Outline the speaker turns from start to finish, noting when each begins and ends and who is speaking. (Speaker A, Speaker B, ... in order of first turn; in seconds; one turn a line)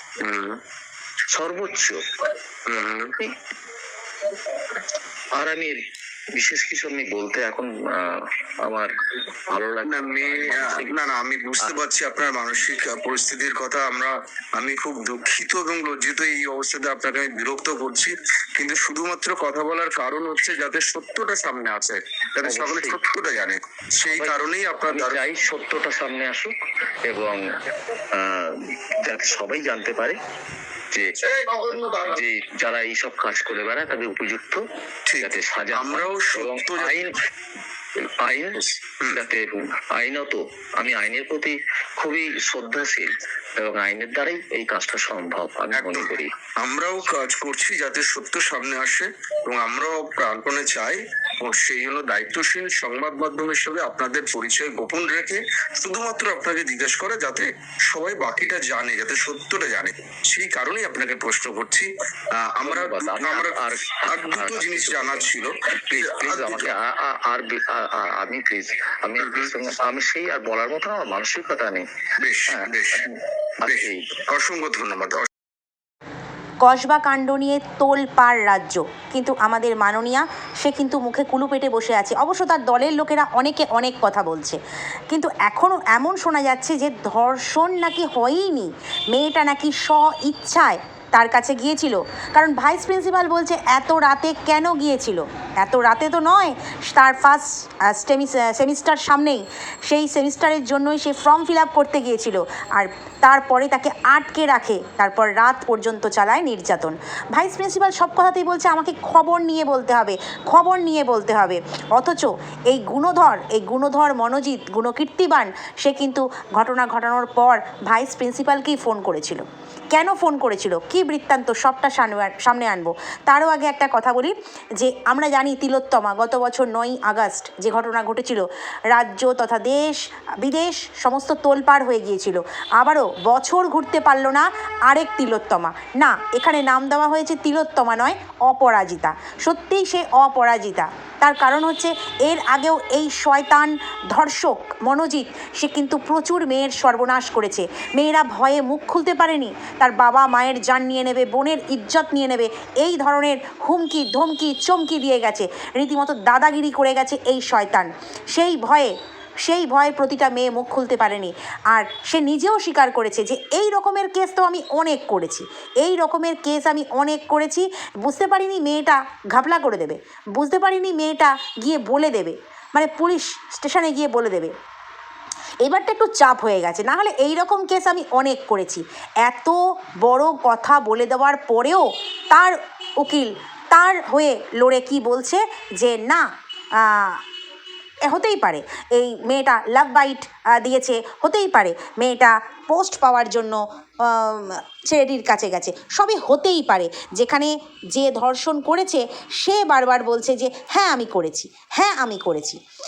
Speaker A: 0.2-0.6
Speaker B: 1.3-2.0
Speaker A: 2.7-3.1
Speaker B: 5.3-5.8
Speaker B: 6.3-8.9
Speaker B: 9.5-10.9
Speaker A: 9.8-25.2
Speaker B: 22.4-23.0
Speaker B: 24.1-26.5
Speaker B: 27.1-27.4
Speaker B: 28.1-30.1
Speaker A: 31.3-32.2
Speaker B: 32.1-34.6
Speaker A: 35.1-37.0
Speaker B: 35.2-37.1
Speaker B: 38.0-46.3
Speaker A: 38.6-39.2
Speaker A: 45.7-66.7
Speaker B: 62.6-65.3
Speaker B: 65.9-71.8
Speaker A: 69.2-69.5
Speaker A: 72.2-73.0
Speaker B: 72.5-74.1
Speaker A: 73.7-75.3
Speaker C: 76.6-84.6
Speaker C: 85.1-158.9
Speaker C: 159.4-174.5
Speaker C: 175.6-186.2
Speaker C: 186.8-187.2
Speaker C: 188.1-202.6